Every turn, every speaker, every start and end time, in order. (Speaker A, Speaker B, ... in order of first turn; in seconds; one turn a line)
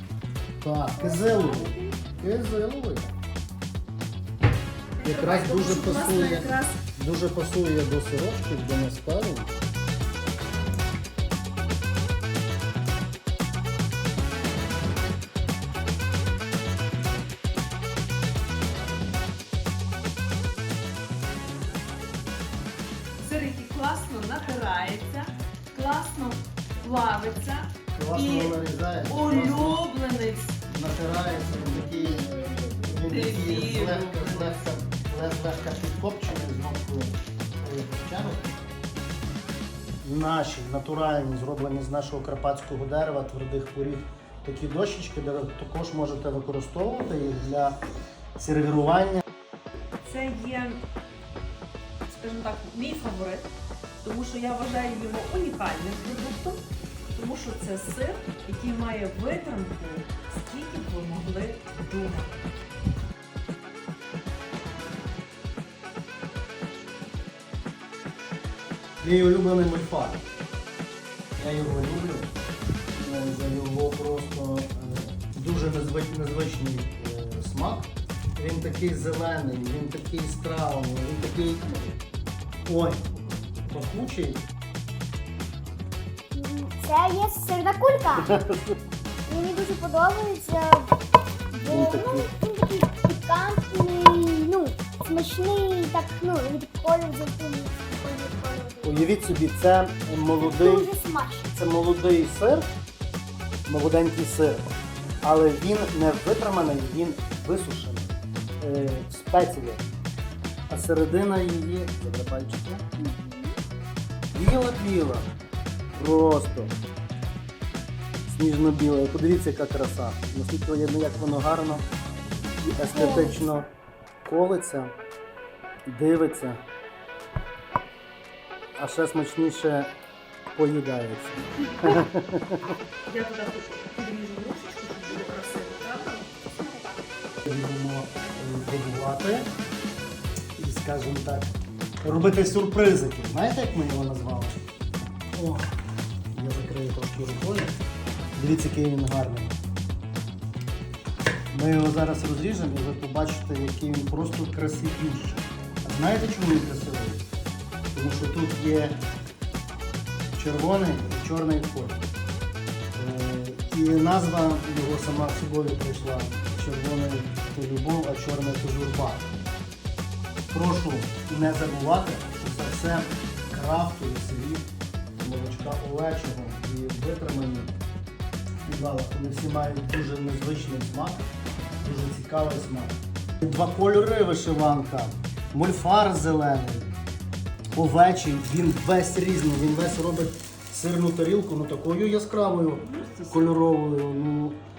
Speaker A: 0.6-3.1
Speaker B: 1.0-2.0
Speaker C: 5.0-6.8
Speaker A: 5.0-9.5
Speaker C: 23.2-30.6
Speaker A: 27.9-29.8
Speaker A: 30.7-38.5
Speaker B: 31.6-33.3
Speaker C: 33.0-34.6
Speaker A: 40.0-47.8
Speaker A: 48.4-49.2
Speaker C: 50.0-50.8
Speaker C: 52.1-53.5
Speaker C: 54.0-56.6
Speaker C: 57.1-62.3
Speaker A: 69.0-70.2
Speaker A: 71.4-72.3
Speaker A: 73.0-81.9
Speaker A: 82.7-83.0
Speaker A: 83.6-84.5
Speaker B: 86.3-88.4
Speaker A: 88.1-88.8
Speaker B: 89.3-91.0
Speaker B: 91.5-99.2
Speaker A: 91.7-92.3
Speaker A: 98.8-100.9
Speaker B: 100.2-101.5
Speaker A: 101.5-102.7
Speaker A: 103.7-104.7
Speaker A: 105.2-109.8
Speaker A: 110.7-112.8
Speaker B: 113.0-113.5
Speaker A: 114.3-115.3
Speaker A: 115.9-116.7
Speaker A: 118.3-121.8
Speaker A: 122.6-123.7
Speaker B: 123.0-123.3
Speaker A: 124.2-124.9
Speaker A: 125.9-126.6
Speaker A: 128.8-129.9
Speaker A: 130.5-132.8
Speaker C: 133.1-137.0
Speaker A: 137.4-139.5
Speaker A: 140.6-144.6
Speaker A: 145.3-145.7
Speaker A: 146.3-147.7
Speaker A: 148.3-149.6
Speaker A: 151.5-157.2
Speaker A: 157.9-159.0
Speaker A: 160.3-162.0
Speaker A: 162.9-169.3
Speaker A: 170.5-174.7
Speaker A: 175.2-177.7
Speaker A: 178.7-181.2
Speaker A: 181.8-186.9
Speaker A: 187.7-194.6
Speaker C: 192.8-193.5